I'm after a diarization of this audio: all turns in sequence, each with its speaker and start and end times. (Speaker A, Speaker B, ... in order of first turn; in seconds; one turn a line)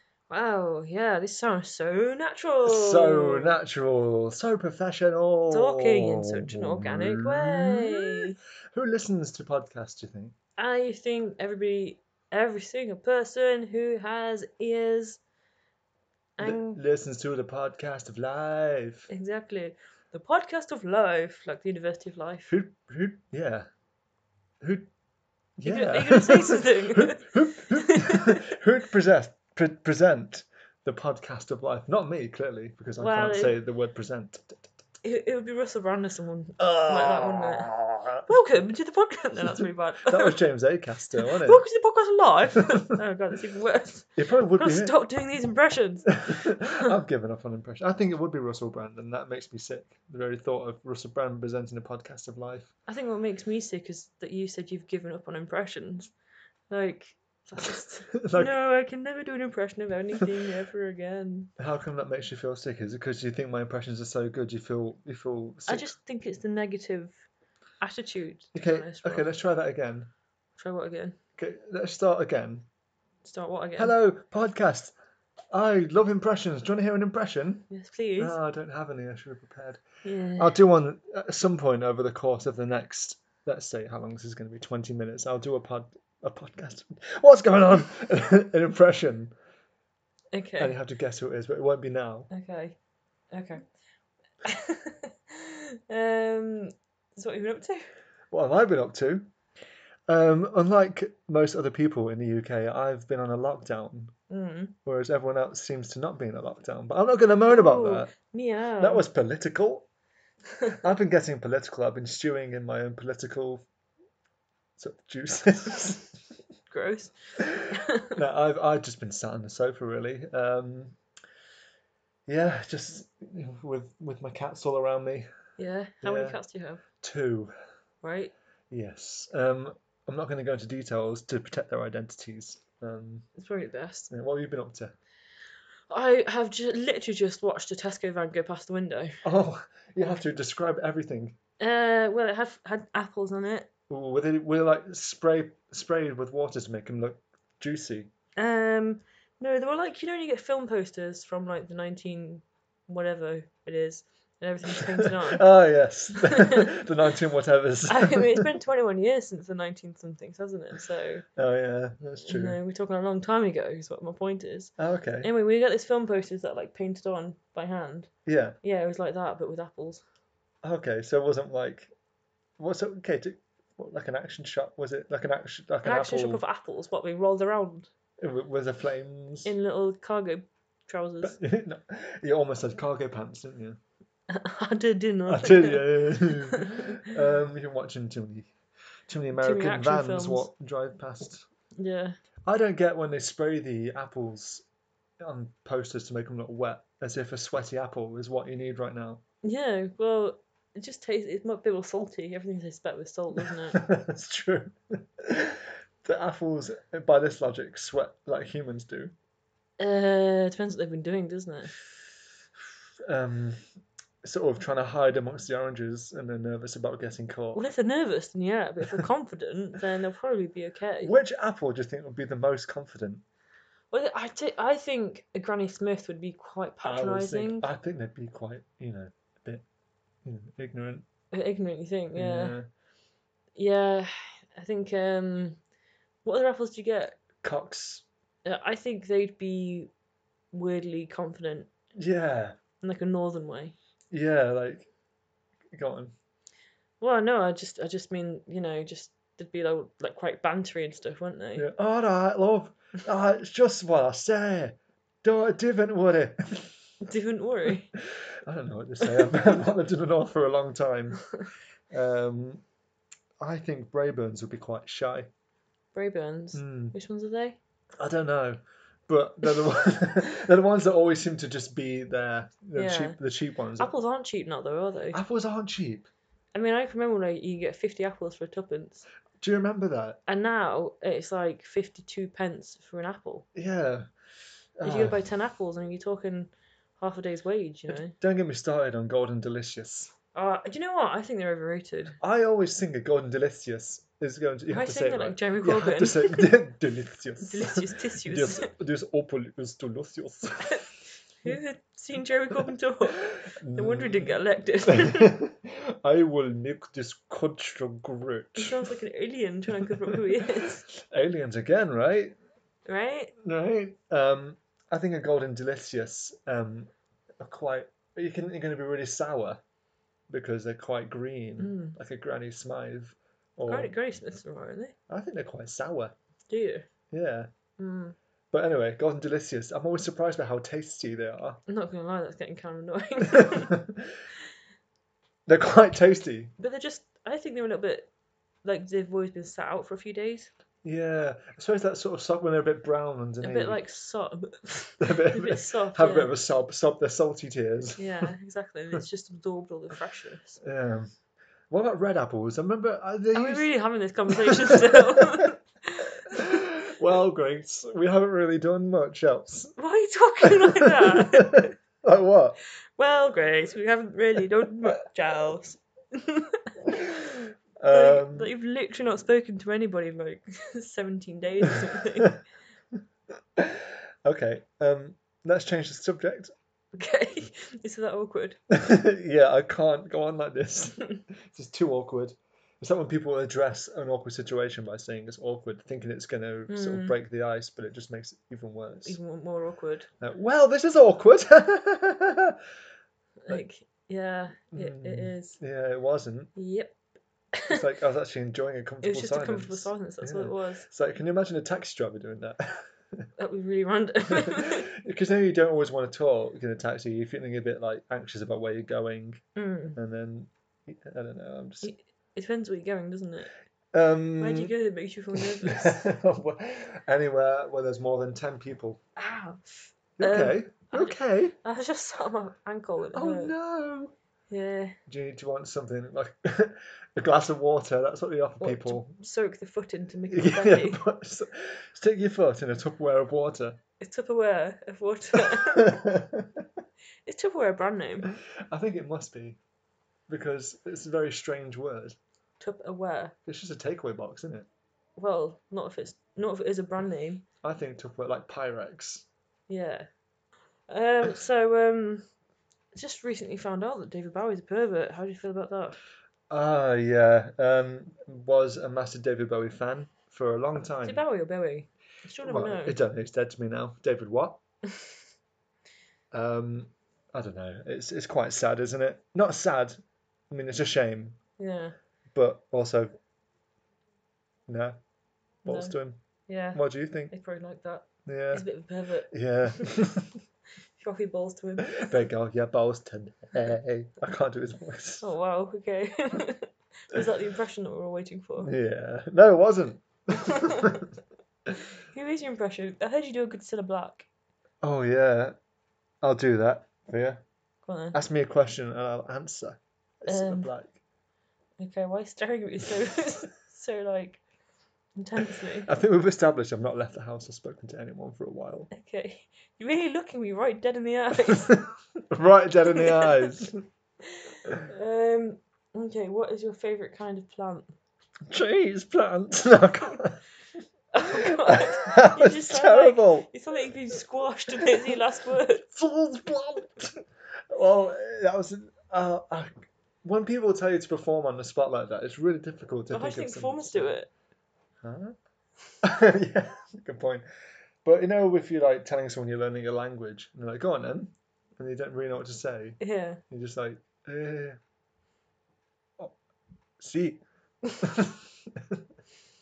Speaker A: 0.3-3.6
Speaker B: 2.6-10.3
Speaker A: 5.5-8.4
Speaker A: 10.6-15.2
Speaker A: 16.4-16.8
Speaker B: 16.4-19.1
Speaker A: 19.1-22.5
Speaker B: 22.5-23.7
Speaker B: 24.6-24.9
Speaker B: 25.6-34.7
Speaker A: 25.6-28.4
Speaker A: 33.0-33.5
Speaker A: 35.0-37.7
Speaker B: 36.6-38.3
Speaker A: 38.2-40.4
Speaker B: 39.5-41.6
Speaker A: 41.1-46.9
Speaker B: 44.2-44.9
Speaker B: 46.2-52.7
Speaker A: 52.9-56.1
Speaker A: 56.7-61.5
Speaker B: 58.2-58.5
Speaker B: 61.6-65.9
Speaker A: 65.7-67.2
Speaker A: 67.8-69.3
Speaker B: 68.5-70.1
Speaker A: 70.5-71.2
Speaker B: 71.4-72.7
Speaker A: 73.2-73.9
Speaker B: 73.8-74.9
Speaker B: 75.5-79.8
Speaker A: 77.7-78.4
Speaker A: 80.0-80.6
Speaker B: 80.4-89.3
Speaker A: 90.3-90.8
Speaker B: 90.6-92.3
Speaker A: 92.3-92.8
Speaker A: 93.3-93.6
Speaker A: 94.4-97.9
Speaker B: 98.3-99.3
Speaker B: 100.1-104.1
Speaker A: 104.3-104.7
Speaker B: 104.8-108.1
Speaker A: 107.5-109.0
Speaker B: 108.8-109.8
Speaker B: 110.7-113.6
Speaker B: 114.8-116.2
Speaker A: 116.7-117.1
Speaker B: 117.4-121.0
Speaker A: 117.7-118.2
Speaker B: 122.3-125.3
Speaker A: 125.6-126.8
Speaker B: 126.0-126.4
Speaker B: 127.0-127.5
Speaker A: 128.0-128.3
Speaker B: 128.7-133.3
Speaker A: 133.4-134.1
Speaker B: 134.1-134.9
Speaker A: 135.9-139.2
Speaker B: 139.2-141.4
Speaker A: 141.6-143.7
Speaker B: 143.9-148.1
Speaker A: 148.4-155.4
Speaker B: 154.7-158.5
Speaker A: 156.2-156.7
Speaker A: 157.9-161.2
Speaker B: 161.3-162.6
Speaker A: 162.2-168.1
Speaker B: 164.8-165.3
Speaker B: 168.2-168.6
Speaker A: 168.6-170.0
Speaker B: 170.6-171.9
Speaker B: 172.6-176.4
Speaker A: 175.8-177.9
Speaker B: 178.2-179.5
Speaker A: 179.4-181.4
Speaker B: 181.2-183.8
Speaker A: 184.3-187.1
Speaker B: 185.2-188.5
Speaker B: 189.1-191.4
Speaker A: 189.3-190.5
Speaker A: 191.8-192.2
Speaker B: 192.4-194.6
Speaker B: 195.2-199.2
Speaker A: 199.4-203.8
Speaker B: 203.7-209.1
Speaker A: 209.8-211.8
Speaker B: 213.1-213.6
Speaker B: 214.2-217.6
Speaker A: 217.5-221.1
Speaker B: 221.0-223.2
Speaker A: 223.9-227.7
Speaker B: 226.8-229.6
Speaker B: 230.2-231.1
Speaker A: 231.3-232.6
Speaker B: 232.1-232.7
Speaker A: 233.5-235.6
Speaker A: 236.2-237.2
Speaker B: 237.4-238.0
Speaker A: 238.4-239.9
Speaker A: 240.5-241.7
Speaker B: 241.9-242.6
Speaker A: 242.8-243.7
Speaker B: 244.1-244.9
Speaker B: 245.7-246.1
Speaker A: 247.0-251.7
Speaker B: 251.6-256.7
Speaker A: 257.0-257.9
Speaker B: 258.4-261.2
Speaker B: 261.9-262.6
Speaker B: 263.4-265.3
Speaker A: 265.9-267.6
Speaker B: 266.5-266.9
Speaker B: 268.0-273.9
Speaker A: 272.7-273.2
Speaker A: 273.8-275.2
Speaker B: 275.1-276.1
Speaker A: 276.5-279.1
Speaker B: 279.4-280.2
Speaker A: 280.3-283.5
Speaker B: 283.5-284.1
Speaker B: 284.8-285.2
Speaker A: 284.8-288.1
Speaker B: 287.9-290.1
Speaker A: 290.3-292.2
Speaker B: 292.2-300.8
Speaker A: 294.7-296.6
Speaker A: 297.4-298.7
Speaker A: 300.6-300.9
Speaker A: 301.4-305.4
Speaker B: 303.4-308.9
Speaker A: 308.6-310.9
Speaker B: 309.7-312.4
Speaker A: 312.9-313.3
Speaker B: 313.4-319.6
Speaker B: 320.3-323.9
Speaker A: 321.6-321.9
Speaker A: 323.7-324.9
Speaker B: 325.1-326.1
Speaker A: 326.5-326.9
Speaker B: 327.1-327.5
Speaker A: 327.8-328.1
Speaker B: 328.5-331.6
Speaker A: 331.7-333.8
Speaker B: 333.3-334.1
Speaker B: 335.5-336.5
Speaker A: 336.6-338.1
Speaker A: 338.6-340.5
Speaker B: 340.8-343.8
Speaker A: 343.4-346.3
Speaker B: 345.0-348.3
Speaker A: 348.0-350.6
Speaker B: 350.6-351.1
Speaker B: 351.7-353.7
Speaker A: 353.3-356.2
Speaker B: 354.3-355.4
Speaker B: 356.3-359.7
Speaker A: 359.8-361.7
Speaker B: 360.4-362.6
Speaker A: 363.0-372.4
Speaker B: 367.8-368.5
Speaker B: 373.6-376.5
Speaker A: 376.9-378.6
Speaker B: 378.7-389.2
Speaker A: 386.7-387.2
Speaker A: 389.0-390.1
Speaker B: 390.2-392.6
Speaker A: 393.4-395.6
Speaker B: 394.7-396.5
Speaker A: 396.5-396.9
Speaker A: 397.5-397.8
Speaker B: 397.7-403.3
Speaker A: 399.0-400.9
Speaker A: 403.4-404.9
Speaker B: 404.3-409.4
Speaker A: 409.6-410.0
Speaker B: 409.9-411.9
Speaker A: 411.8-413.5
Speaker B: 413.9-414.7
Speaker A: 414.4-416.1
Speaker B: 415.3-419.0
Speaker A: 419.1-423.5
Speaker B: 420.2-421.5
Speaker B: 423.1-424.1
Speaker A: 424.5-424.9
Speaker B: 425.1-429.1
Speaker A: 428.6-431.0
Speaker B: 430.3-433.8
Speaker A: 434.0-436.0
Speaker B: 435.4-436.6
Speaker A: 437.2-438.3
Speaker B: 438.7-439.6
Speaker B: 440.3-442.2
Speaker A: 442.6-443.3
Speaker B: 443.4-444.7
Speaker A: 445.1-447.4
Speaker B: 447.6-449.2
Speaker A: 449.7-450.1
Speaker A: 450.9-452.3
Speaker A: 452.9-456.0
Speaker B: 456.5-461.2
Speaker A: 461.0-463.0
Speaker B: 462.4-464.6
Speaker B: 466.3-470.0
Speaker B: 470.5-471.4
Speaker A: 471.6-471.9
Speaker B: 472.3-473.1
Speaker B: 474.7-475.0
Speaker B: 475.6-476.2
Speaker A: 475.7-475.9
Speaker A: 476.5-480.1
Speaker B: 476.7-477.3
Speaker B: 478.2-478.6
Speaker B: 479.3-480.3
Speaker A: 481.0-482.1
Speaker B: 481.9-485.2
Speaker A: 485.2-488.7
Speaker B: 488.6-491.1
Speaker A: 490.3-491.1
Speaker A: 491.9-494.3
Speaker B: 494.8-495.5
Speaker B: 496.2-497.4
Speaker A: 497.8-498.2
Speaker B: 498.1-501.0
Speaker A: 500.3-500.7
Speaker A: 501.8-504.4
Speaker A: 505.1-505.9
Speaker B: 505.8-508.9
Speaker A: 508.9-511.8
Speaker B: 511.7-513.8
Speaker A: 512.9-513.5
Speaker A: 514.3-517.9
Speaker B: 518.5-520.4
Speaker A: 521.1-525.9
Speaker B: 521.3-523.5
Speaker B: 525.9-527.1
Speaker B: 527.7-534.2
Speaker A: 533.1-534.3
Speaker B: 535.0-535.3
Speaker B: 536.0-537.4
Speaker B: 538.0-544.8
Speaker A: 543.0-543.4
Speaker B: 547.0-547.4
Speaker B: 548.0-549.0